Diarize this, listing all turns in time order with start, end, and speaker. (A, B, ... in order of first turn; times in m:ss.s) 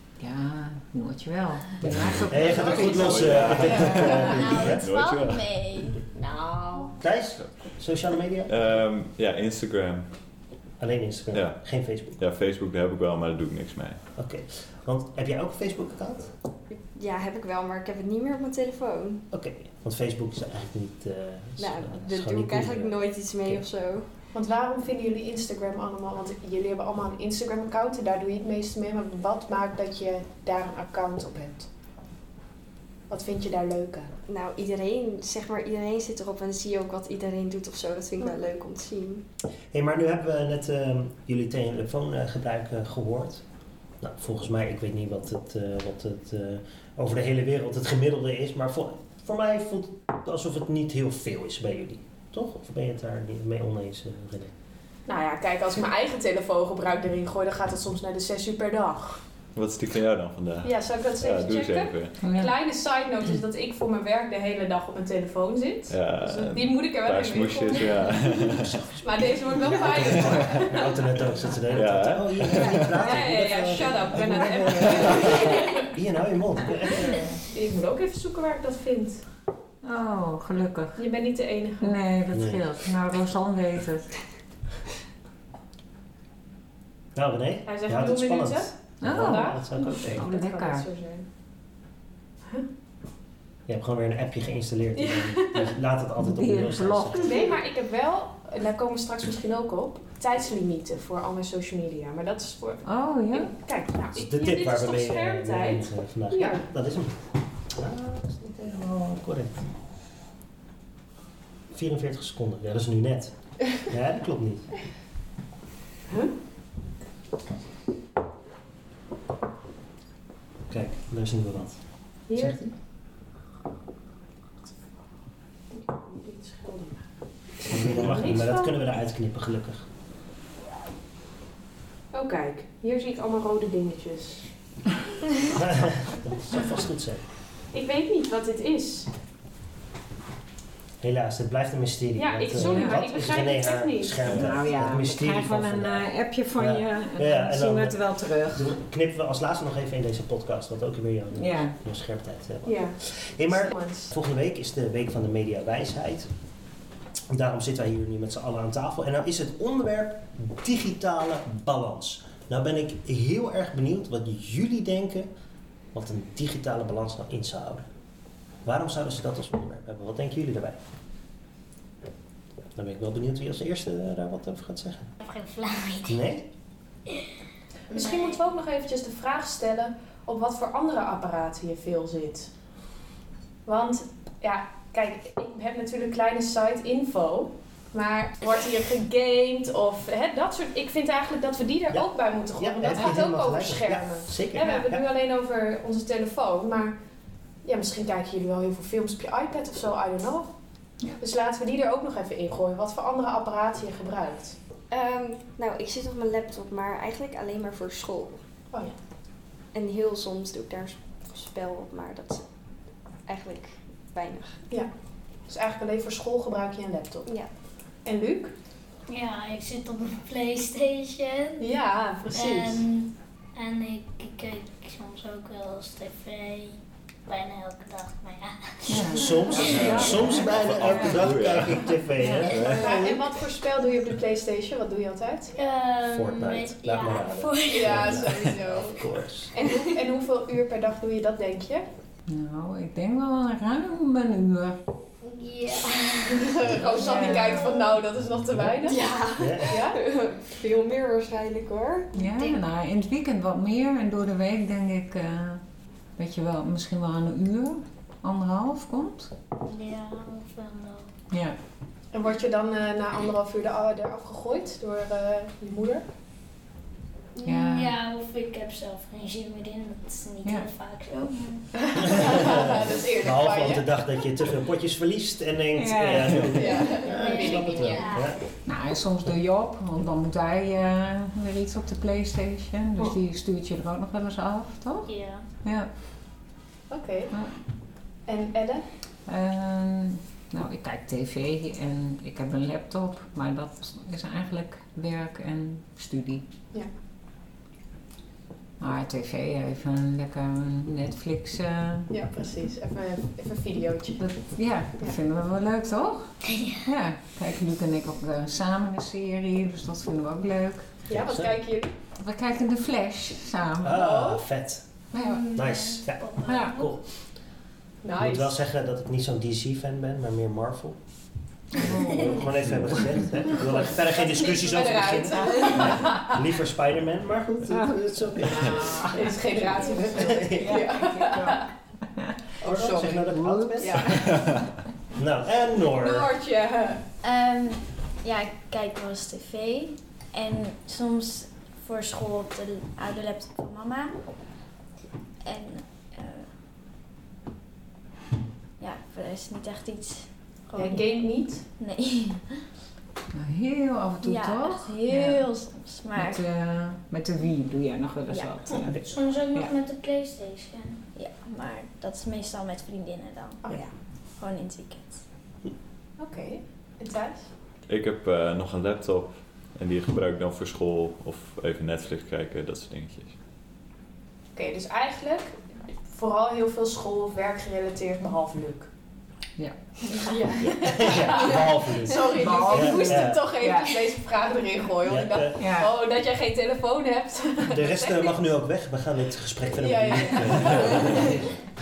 0:00.2-0:04.2 A
0:01.8-0:04.9 B
0:02.2-0:05.6 C
0:03.7-0:06.0 D
0:06.2-0:06.9 E
0:07.0-0:08.6 B
0:08.5-0:10.1 C
0:10.8-0:12.2 B
0:11.3-0:14.0 C
0:14.2-0:16.3 B
0:16.7-0:19.2 F
0:19.3-0:23.6 B
0:21.6-0:24.1 F
0:24.3-0:31.7 E
0:33.1-0:34.1 E
0:34.3-0:39.3 F
0:39.7-0:43.4 B
0:44.0-0:54.5 B
0:55.1-0:59.2 E
0:59.6-1:02.2 C
1:00.6-1:11.0 E
1:02.2-1:02.5 A
1:05.9-1:08.8 C
1:09.6-1:17.3 B
1:10.0-1:10.6 C
1:11.7-1:13.1 C
1:13.0-1:15.9 E
1:17.4-1:19.2 E
1:19.8-1:21.0 A
1:21.0-1:22.0 E
1:21.8-1:24.2 A
1:22.3-1:22.7 B
1:27.2-1:30.3 B
1:27.7-1:31.3 E
1:29.0-1:30.9 A
1:33.7-1:37.5 B
1:35.0-1:35.7 E
1:36.2-1:37.6 A
1:37.2-1:46.7 E
1:42.8-1:43.5 A
1:44.1-1:49.7 B
1:51.7-1:54.7 B
2:00.7-2:02.7 B
2:02.3-2:02.7 E
2:05.7-2:07.1 E
2:07.6-2:08.8 E
2:07.6-2:09.9 B
2:12.1-2:14.5 E
2:15.5-2:17.2 B
2:17.7-2:19.1 E
2:21.0-2:36.3 B
2:22.2-2:24.3 E
2:22.6-2:23.0 A
2:24.3-2:28.8 A
2:31.4-2:31.8 A
2:32.6-2:34.1 E
2:37.3-2:45.3 B
2:45.9-2:47.8 B
2:48.6-2:50.8 B
2:52.8-2:55.1 B
2:55.2-2:56.2 G
2:56.0-2:56.5 B
2:57.9-2:58.5 G
2:57.9-3:02.5 E
3:03.6-3:17.0 E
3:11.9-3:15.0 B
3:17.6-3:20.5 E
3:21.2-3:24.6 E
3:24.9-3:28.4 F
3:29.7-3:32.4 F
3:33.3-3:34.6 F
3:35.5-3:37.3 E
3:38.0-3:38.5 E
3:39.1-3:41.8 G
3:41.6-3:42.8 E
3:42.3-3:49.7 G
3:48.9-3:51.2 A
3:49.0-3:53.3 B
3:49.7-3:53.1 C
3:52.2-3:52.6 A
3:52.7-3:55.5 E
3:55.5-3:58.2 G
3:56.1-3:59.5 B
3:57.7-4:01.9 E
4:02.3-4:04.8 A
4:05.2-4:07.9 G
4:06.5-4:10.0 E
4:06.8-4:07.7 A
4:08.8-4:12.1 F
4:09.4-4:09.8 B
4:12.1-4:15.6 A
4:12.2-4:12.6 G
4:16.2-4:19.3 A
4:19.6-4:21.1 G
4:21.3-4:21.6 A
4:22.1-4:26.1 E
4:27.4-4:32.4 G
4:27.4-4:27.9 A
4:31.9-4:34.0 E
4:32.1-4:38.4 B
4:35.8-4:36.6 A
4:36.5-4:38.2 E
4:36.8-4:38.4 G
4:38.6-4:45.1 A
4:45.0-4:45.4 G
4:45.6-4:45.9 A
4:46.9-4:47.3 E
4:48.3-4:48.8 E
4:49.3-4:56.4 A
4:58.8-5:02.1 A
5:02.1-5:04.2 E
5:04.2-5:10.9 A
5:06.4-5:06.9 G
5:11.1-5:11.6 B
5:11.1-5:11.9 E
5:12.2-5:14.1 A
5:13.8-5:14.9 B
5:13.9-5:14.4 E
5:15.1-5:15.4 A
5:15.2-5:17.0 G
5:15.5-5:17.0 B
5:16.5-5:16.8 A
5:18.0-5:18.5 E
5:18.2-5:21.0 B
5:21.7-5:22.5 A
5:22.1-5:29.1 B
5:23.6-5:26.4 E
5:27.7-5:29.3 A
5:29.0-5:31.7 E
5:29.9-5:30.8 B
5:30.5-5:31.6 A
5:32.6-5:34.4 E
5:32.6-5:34.3 B
5:33.4-5:34.3 A
5:35.2-5:36.3 B
5:35.9-5:37.0 E
5:37.2-5:44.2 D
5:45.4-5:46.5 D
5:48.8-5:52.6 D
5:50.8-5:51.6 E
5:53.3-5:55.4 A
5:54.2-5:56.4 D
5:56.1-5:59.0 A
5:58.3-5:58.6 D
5:59.0-6:01.0 G
6:01.2-6:03.8 D
6:03.6-6:03.9 E
6:04.4-6:05.2 D
6:06.2-6:07.5 E
6:07.9-6:13.3 C
6:14.6-6:18.9 E
6:20.2-6:28.4 E
6:20.8-6:23.5 B
6:22.3-6:24.1 A
6:25.0-6:25.6 B
6:25.6-6:25.9 A
6:27.7-6:31.5 B
6:29.7-6:31.4 E